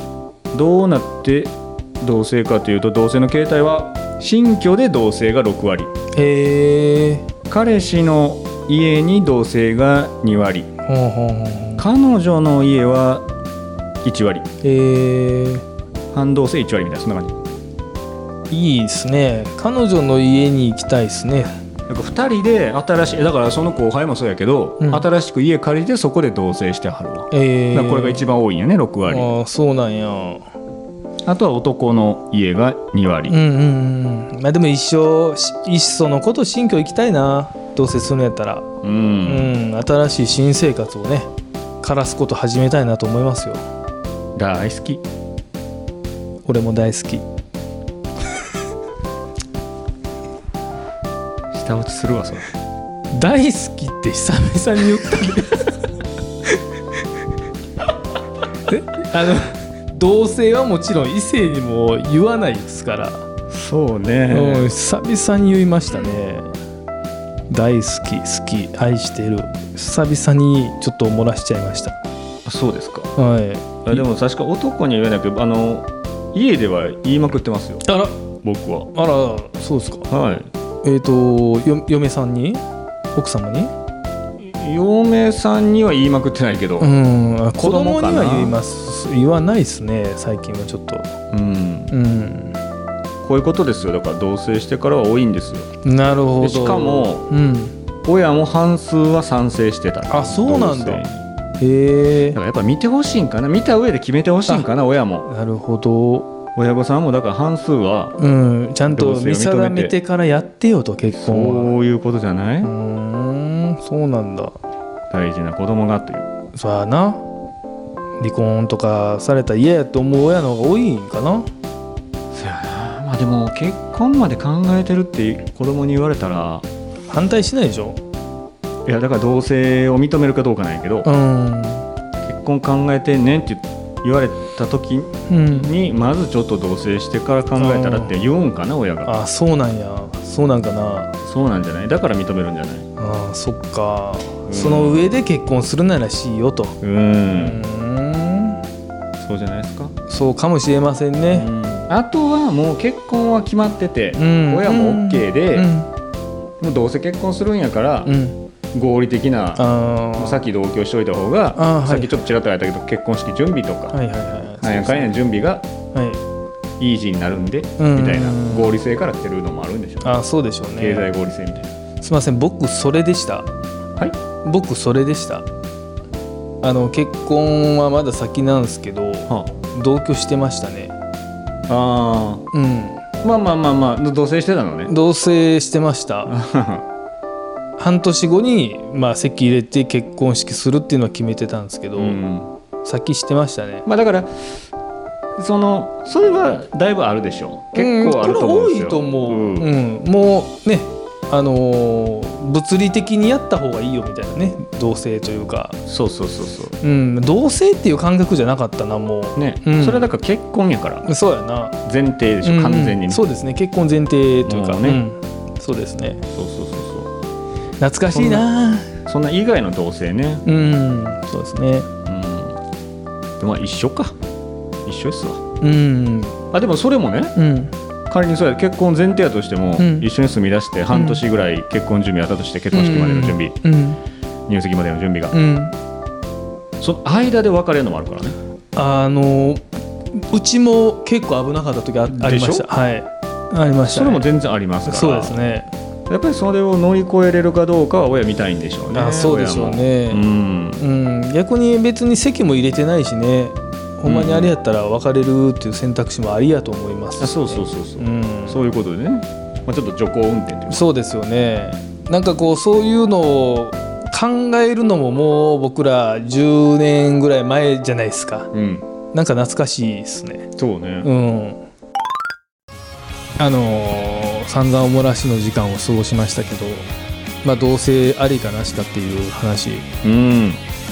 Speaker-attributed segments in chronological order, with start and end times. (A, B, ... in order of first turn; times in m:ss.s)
0:00.5-0:05.9 A
0:06.1-0:07.2 B
0:07.5-0:10.7 A
0:10.8-0:11.8 B
0:11.8-0:13.2 A
0:14.0-0:14.4 A
0:14.6-0:15.6 B
0:16.1-0:17.3 A
0:18.5-0:21.6 B
0:21.9-0:29.3 A
0:24.8-0:25.0 B
0:27.3-0:28.2 B
0:29.0-0:30.4 B
0:31.2-0:33.4 A
0:33.3-0:38.7 B
0:38.8-0:39.6 A
0:39.2-0:41.3 B
0:41.8-0:43.6 B
0:44.4-0:45.0 A
0:46.4-0:47.2 B
0:51.5-0:52.5 A
0:53.1-0:55.7 B
0:58.7-1:03.2 B
1:03.5-1:04.7 A
1:04.3-1:06.5 B
1:07.5-1:12.0 B
1:12.4-1:13.1 A
1:13.2-1:14.0 B
1:13.8-1:17.8 A
1:17.8-1:18.2 B
1:18.4-1:18.9 A
1:18.9-1:20.1 B
1:20.1-1:20.5 A
1:20.8-1:22.6 B
1:23.1-1:23.7 B
1:24.4-1:26.9 A
1:26.8-1:31.1 B
1:27.6-1:28.6 A
1:31.3-1:31.9 A
1:31.9-1:32.6 B
1:33.2-1:35.7 A
1:35.8-1:37.7 B
1:36.4-1:37.2 A
1:38.0-1:41.2 A
1:40.1-1:41.0 B
1:41.6-1:42.4 B
1:42.3-1:45.3 A
1:45.2-1:46.3 B
1:46.5-1:48.2 A
1:48.2-1:51.7 B
1:48.9-1:49.9 A
1:51.1-1:52.7 A
1:52.6-1:54.6 B
1:55.1-1:56.3 A
1:56.5-1:57.2 B
1:58.2-2:01.5 B
2:02.3-2:06.6 A
2:07.1-2:08.0 B
2:08.8-2:11.1 A
2:11.0-2:11.8 B
2:12.2-2:19.1 A
2:15.3-2:15.7 B
2:17.6-2:18.1 B
2:19.0-2:21.1 B
2:21.2-2:22.9 A
2:23.0-2:26.8 B
2:24.4-2:25.1 A
2:26.8-2:27.6 A
2:27.3-2:28.6 B
2:29.2-2:29.9 A
2:30.1-2:31.5 B
2:31.3-2:35.7 A
2:34.2-2:35.9 B
2:36.6-2:38.1 A
2:38.0-2:38.4 B
2:38.7-2:39.6 A
2:39.6-2:40.4 B
2:40.2-2:44.0 A
2:41.6-2:42.1 B
2:43.9-2:45.1 B
2:44.6-2:45.6 A
2:45.9-2:46.2 B
2:46.8-2:50.1 A
2:47.8-2:48.8 B
2:50.0-2:51.1 B
2:50.8-2:51.7 A
2:52.0-2:53.5 B
2:54.4-2:55.4 B
2:56.6-3:00.9 B
3:01.7-3:02.4 A
3:02.5-3:03.0 B
3:03.2-3:04.9 A
3:04.9-3:06.3 B
3:06.2-3:06.8 A
3:07.8-3:12.2 B
3:12.0-3:12.5 A
3:12.8-3:13.8 B
3:13.8-3:14.3 A
3:15.4-3:19.7 A
3:17.7-3:25.8 B
3:25.8-3:26.8 A
3:26.8-3:30.1 B
3:29.4-3:31.0 A
3:31.0-3:31.8 B
3:31.8-3:33.2 A
3:32.4-3:36.2 B
3:34.4-3:35.0 A
3:36.3-3:37.1 A
3:37.8-3:38.9 B
3:38.1-3:38.5 A
3:39.0-3:40.4 A
3:40.4-3:41.9 B
3:42.0-3:42.6 A
3:43.4-3:44.1 A
3:44.8-3:45.4 A
3:45.6-3:46.4 B
3:46.5-3:47.3 A
3:47.4-3:47.7 B
3:48.1-3:53.5 A
3:49.8-3:50.1 B
3:50.9-3:51.2 B
3:52.7-3:54.0 B
3:54.5-3:55.3 A
3:55.3-3:55.7 B
3:56.8-3:58.4 A
3:58.7-3:59.6 B
4:00.2-4:04.3 B
4:02.1-4:02.6 A
4:03.8-4:05.4 A
4:04.8-4:05.7 B
4:06.1-4:10.8 A
4:08.9-4:10.2 B
4:10.8-4:18.6 B
4:14.0-4:14.5 A
4:17.2-4:20.8 A
4:20.7-4:28.5 B
4:28.5-4:28.8 A
4:29.1-4:30.5 B
4:30.6-4:31.1 A
4:31.0-4:31.6 B
4:33.4-4:36.9 B
4:37.4-4:39.9 B
4:40.0-4:40.6 A